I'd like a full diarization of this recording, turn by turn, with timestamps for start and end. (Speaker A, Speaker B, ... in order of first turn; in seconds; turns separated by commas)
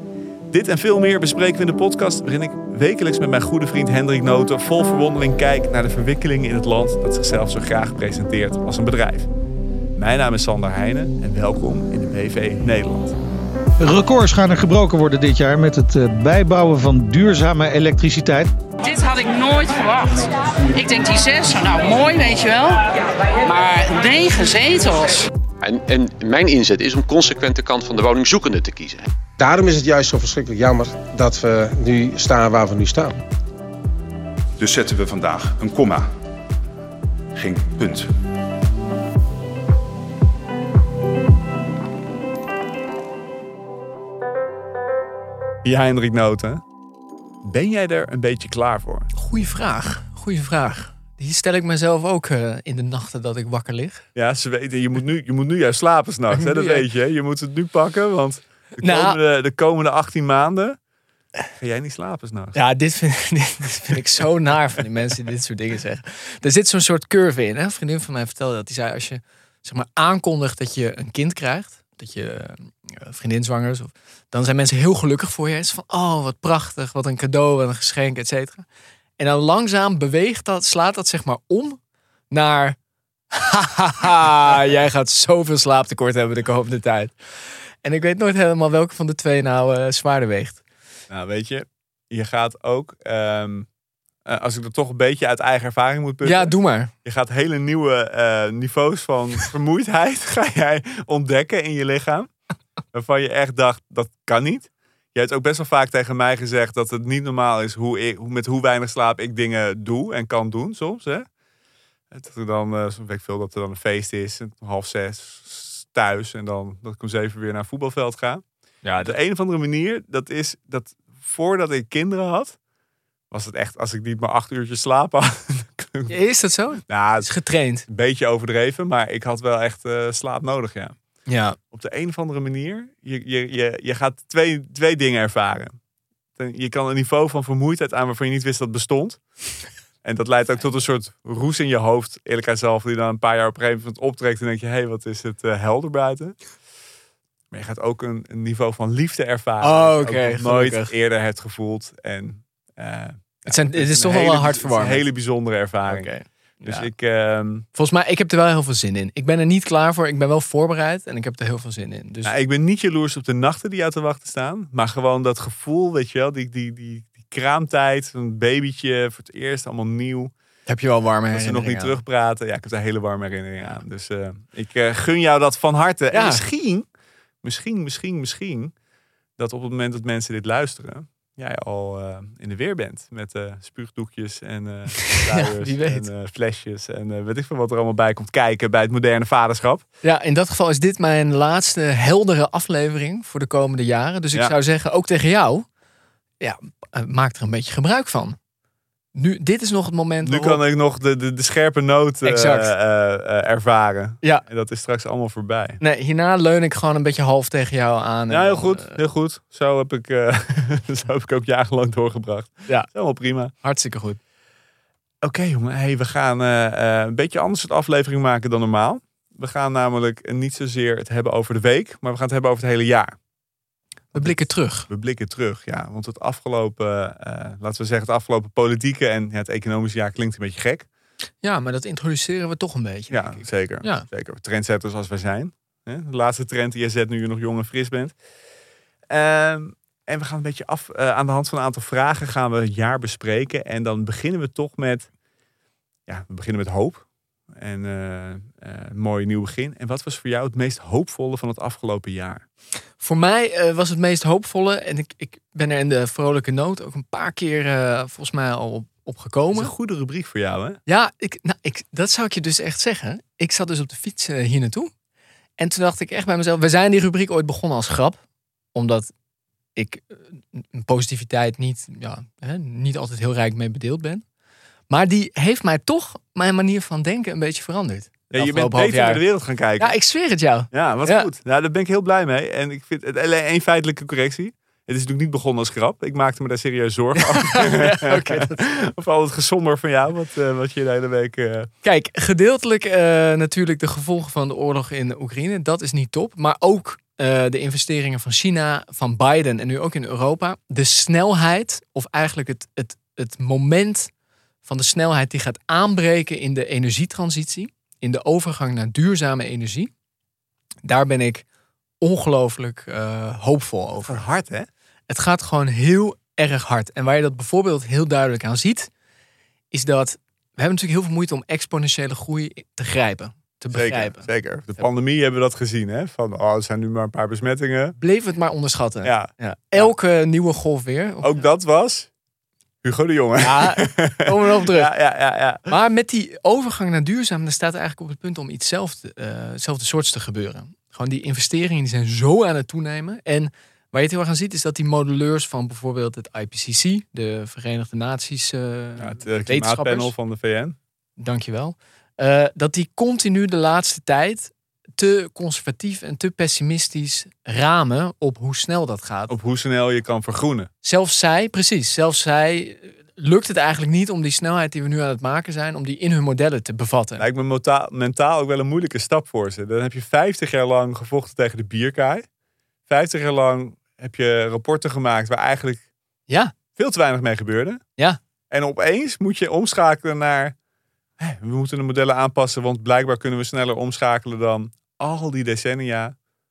Speaker A: 0.5-9.3, Speaker A: 9.9-13.2, Speaker B: 13.8-18.5, Speaker C: 18.8-22.9, Speaker C: 23.4-25.3, Speaker D: 25.6-29.1, Speaker E: 29.4-33.2, Speaker F: 34.6-36.1, Speaker F: 37.4-38.1, Speaker A: 45.6-46.6, Speaker A: 47.4-49.1, Speaker G: 49.1-54.1, Speaker A: 54.1-60.8, Speaker G: 56.3-56.9, Speaker G: 58.8-59.2, Speaker A: 61.6-62.6, Speaker G: 62.5-78.7, Speaker G: 79.2-81.8, Speaker G: 82.3-82.8, Speaker G: 83.3-90.6, Speaker A: 91.1-93.7, Speaker A: 94.2-96.5, Speaker G: 96.2-96.9, Speaker A: 97.0-102.3, Speaker A: 102.9-111.3, Speaker A: 112.1-118.4, Speaker G: 118.8-119.2, Speaker A: 119.0-122.6, Speaker A: 123.3-126.2, Speaker G: 126.1-127.9, Speaker A: 126.9-127.3, Speaker A: 127.9-130.9, Speaker G: 131.3-131.6, Speaker A: 131.7-135.8, Speaker A: 136.4-139.2, Speaker A: 140.0-146.4, Speaker A: 147.5-156.1, Speaker G: 149.6-150.9, Speaker G: 153.5-155.1, Speaker G: 155.9-156.9, Speaker A: 156.6-157.7, Speaker G: 157.8-162.3, Speaker A: 162.2-170.3, Speaker G: 170.7-172.0, Speaker A: 171.3-176.9, Speaker G: 176.1-176.4, Speaker A: 177.4-178.7, Speaker A: 179.4-189.8, Speaker G: 185.3-186.1, Speaker G: 190.0-195.7, Speaker G: 196.4-198.4, Speaker G: 199.1-200.6, Speaker A: 200.2-205.8, Speaker G: 202.2-202.7, Speaker G: 205.8-209.0, Speaker A: 208.3-213.5, Speaker G: 213.6-214.2, Speaker A: 215.2-223.1, Speaker G: 224.1-224.9, Speaker A: 224.9-230.9, Speaker G: 231.4-234.1, Speaker A: 233.1-238.2, Speaker A: 239.1-245.1, Speaker A: 246.1-252.4, Speaker G: 253.0-259.7, Speaker A: 259.5-260.8, Speaker G: 260.9-264.9, Speaker G: 265.6-268.2, Speaker G: 268.7-269.1, Speaker G: 269.8-274.2, Speaker G: 274.9-279.2, Speaker A: 278.3-280.0, Speaker G: 279.8-281.3, Speaker A: 280.7-291.7, Speaker G: 287.2-288.6, Speaker G: 291.8-304.1, Speaker G: 304.6-309.9, Speaker G: 310.8-311.4, Speaker G: 312.0-314.2, Speaker A: 314.0-314.7, Speaker G: 315.1-318.9, Speaker G: 319.7-324.3, Speaker A: 323.7-328.0, Speaker G: 328.0-331.3, Speaker A: 329.0-329.9, Speaker A: 331.2-332.1, Speaker A: 332.8-335.7, Speaker G: 333.4-334.9, Speaker G: 335.7-350.1, Speaker A: 349.0-350.8, Speaker G: 351.2-359.3, Speaker A: 359.3-360.7, Speaker G: 360.8-367.2, Speaker A: 367.2-372.2, Speaker A: 372.9-375.8, Speaker G: 376.3-376.6, Speaker A: 376.7-377.8, Speaker A: 378.5-380.6, Speaker A: 381.2-386.1